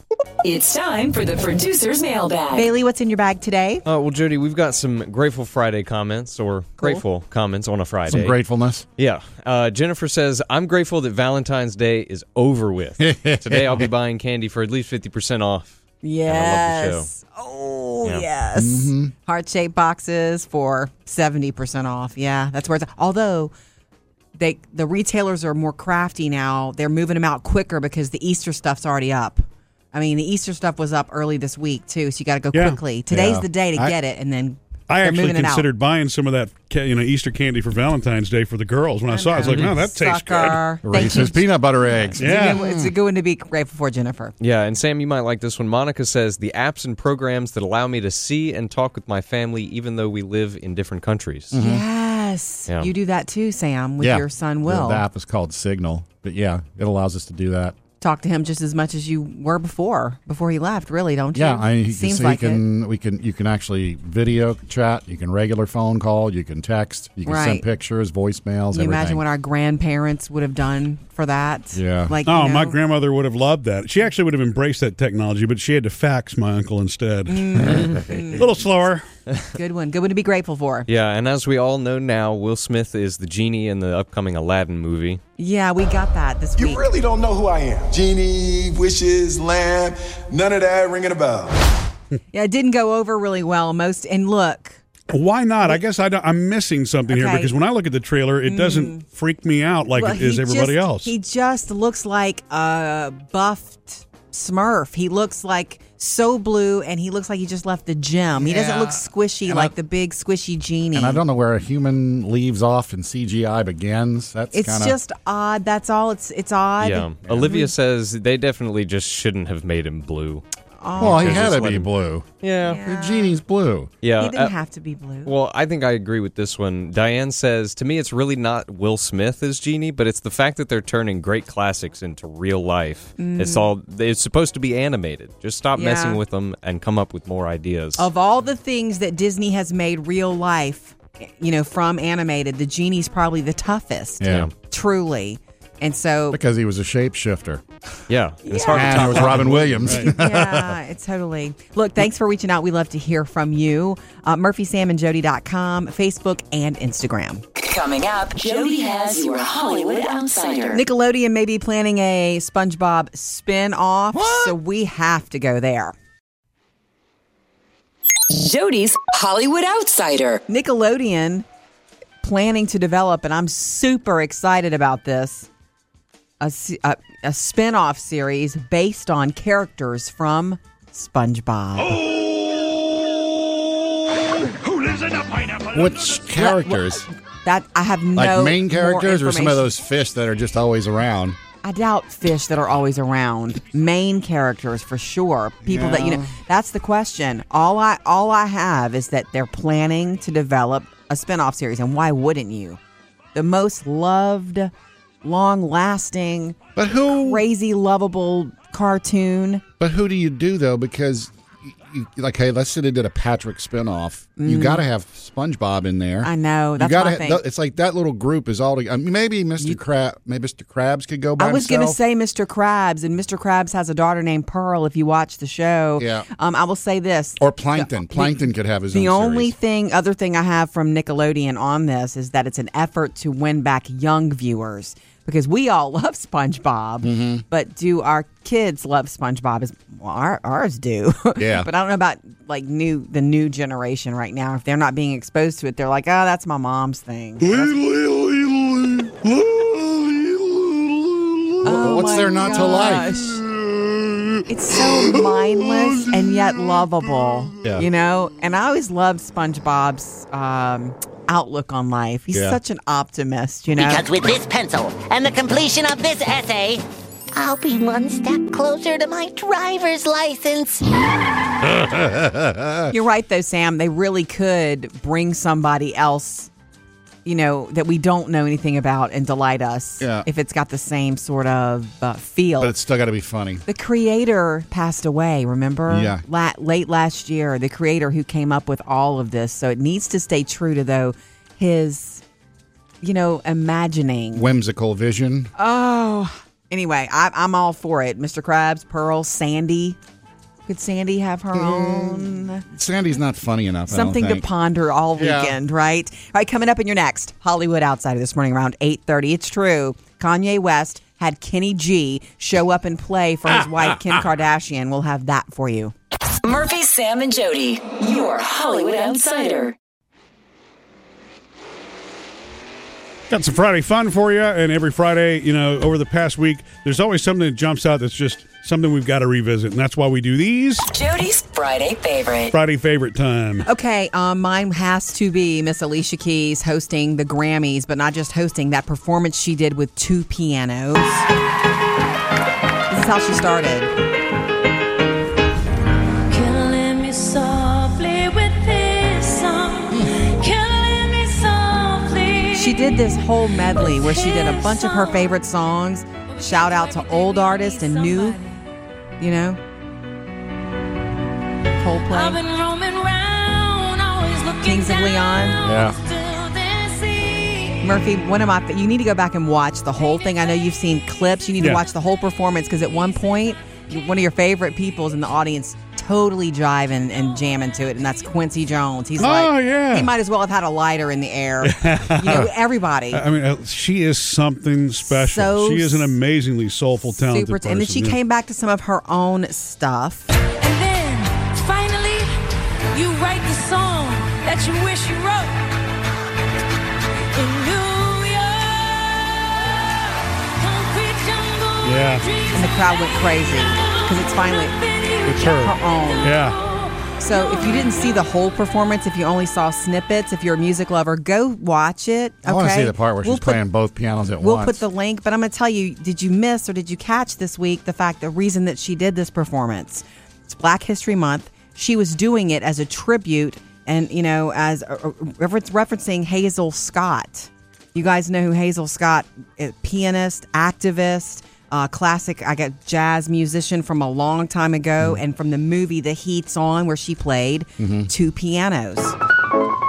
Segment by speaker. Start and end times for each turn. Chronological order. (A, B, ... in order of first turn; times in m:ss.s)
0:00.4-0:02.7 A
0:02.5-0:03.8 B
0:03.8-0:08.4 C
0:06.8-0:07.0 B
0:08.1-0:08.8 D
0:09.0-0:17.1 C
0:13.0-0:13.9 D
0:16.0-0:23.5 B
0:18.5-0:19.1 D
0:24.4-0:35.7 B
0:33.1-0:33.9 D
0:34.9-0:40.6 E
0:39.1-0:41.5 B
0:40.8-0:42.9 D
0:42.1-0:44.3 B
0:42.2-0:42.6 E
0:44.4-0:51.5 C
0:51.5-0:51.8 D
0:51.6-0:55.0 B
0:54.0-0:57.8 D
0:58.0-1:02.6 B
1:01.3-1:09.2 D
1:07.2-1:07.6 B
1:08.7-1:12.8 B
1:11.7-1:12.1 D
1:12.3-1:17.8 E
1:17.3-1:18.4 B
1:18.4-1:19.0 E
1:19.5-1:20.9 B
1:20.9-1:25.2 C
1:25.4-1:26.8 B
1:26.6-1:31.6 F
1:32.3-1:34.8 B
1:35.1-1:41.1 E
1:37.1-1:37.5 B
1:38.4-1:39.0 B
1:39.9-1:51.2 B
1:48.4-1:49.7 D
1:50.9-1:55.0 D
1:54.5-1:57.7 B
1:56.8-2:00.4 C
1:57.2-1:57.6 D
2:00.8-2:01.5 B
2:01.0-2:03.9 D
2:01.0-2:01.9 C
2:02.4-2:02.8 C
2:02.6-2:03.4 B
2:04.0-2:04.5 C
2:04.2-2:05.3 B
2:05.2-2:18.1 C
2:13.2-2:13.7 B
2:15.7-2:16.2 B
2:18.0-2:26.4 B
2:24.2-2:24.5 D
2:24.2-2:24.5 C
2:26.3-2:27.6 D
2:28.1-2:29.7 C
2:28.4-2:37.4 B
2:28.7-2:30.7 D
2:29.4-2:30.1 E
2:37.6-2:40.8 A
2:40.7-2:45.9 B
2:44.2-2:44.5 D
2:48.3-2:50.4 A
2:50.5-2:51.4 B
2:52.2-2:55.5 B
2:56.4-3:02.1 B
3:05.6-3:07.0 D
3:06.3-3:09.7 B
3:08.2-3:11.4 D
3:11.6-3:22.8 B
3:15.6-3:16.3 D
3:23.3-3:24.7 B
3:25.2-3:29.6 B
3:26.8-3:27.4 D
3:29.8-3:42.0 D
3:34.4-3:34.8 B
3:36.2-3:37.4 B
3:41.4-4:07.8 B
3:46.0-3:46.3 D
3:47.4-3:49.5 D
3:57.0-3:57.4 D
4:01.4-4:01.7 D
4:07.4-4:14.4 D
4:11.6-4:13.4 B
4:14.5-4:24.0 B
4:22.3-4:22.6 D
4:23.7-4:26.8 G
4:27.3-4:30.8 G
4:31.6-4:32.9 D
4:32.9-4:36.5 B
4:37.2-4:42.7 B
4:40.0-4:40.3 D
4:42.6-4:43.6 D
4:43.6-4:52.2 B
4:45.9-4:46.2 D
4:53.0-4:54.5 B
4:54.3-4:55.5 D
4:55.6-5:00.0 B
5:00.7-5:02.6 B
5:01.5-5:04.4 D
5:03.9-5:15.9 B
5:05.2-5:05.6 D
5:13.6-5:14.1 D
5:16.4-5:19.7 A
5:23.3-5:30.9 E
5:30.9-5:32.5 A
5:32.5-5:33.6 E
5:33.6-5:41.2 B
5:42.9-5:43.9 B
5:46.3-5:55.4 H
5:52.5-5:58.4 B
5:56.4-5:58.6 H
5:59.2-5:59.6 B
6:01.8-6:02.4 B
6:02.1-6:07.8 H
6:04.6-6:05.6 B
6:05.6-6:06.0 D
6:07.8-6:23.2 B
6:19.2-6:20.1 E
6:21.6-6:22.5 E
6:23.1-6:28.2 E
6:25.0-6:26.2 B
6:27.0-6:30.3 B
6:30.6-6:32.3 H
6:32.9-6:35.6 H
6:37.3-6:39.7 H
6:40.6-6:45.4 H
6:41.8-6:42.2 E
6:42.5-6:44.8 B
6:45.2-6:46.6 E
6:45.3-6:46.3 B
6:46.0-6:47.7 H
6:47.2-6:53.6 B
6:52.4-6:54.8 D
6:54.4-7:19.1 B
7:17.8-7:18.1 D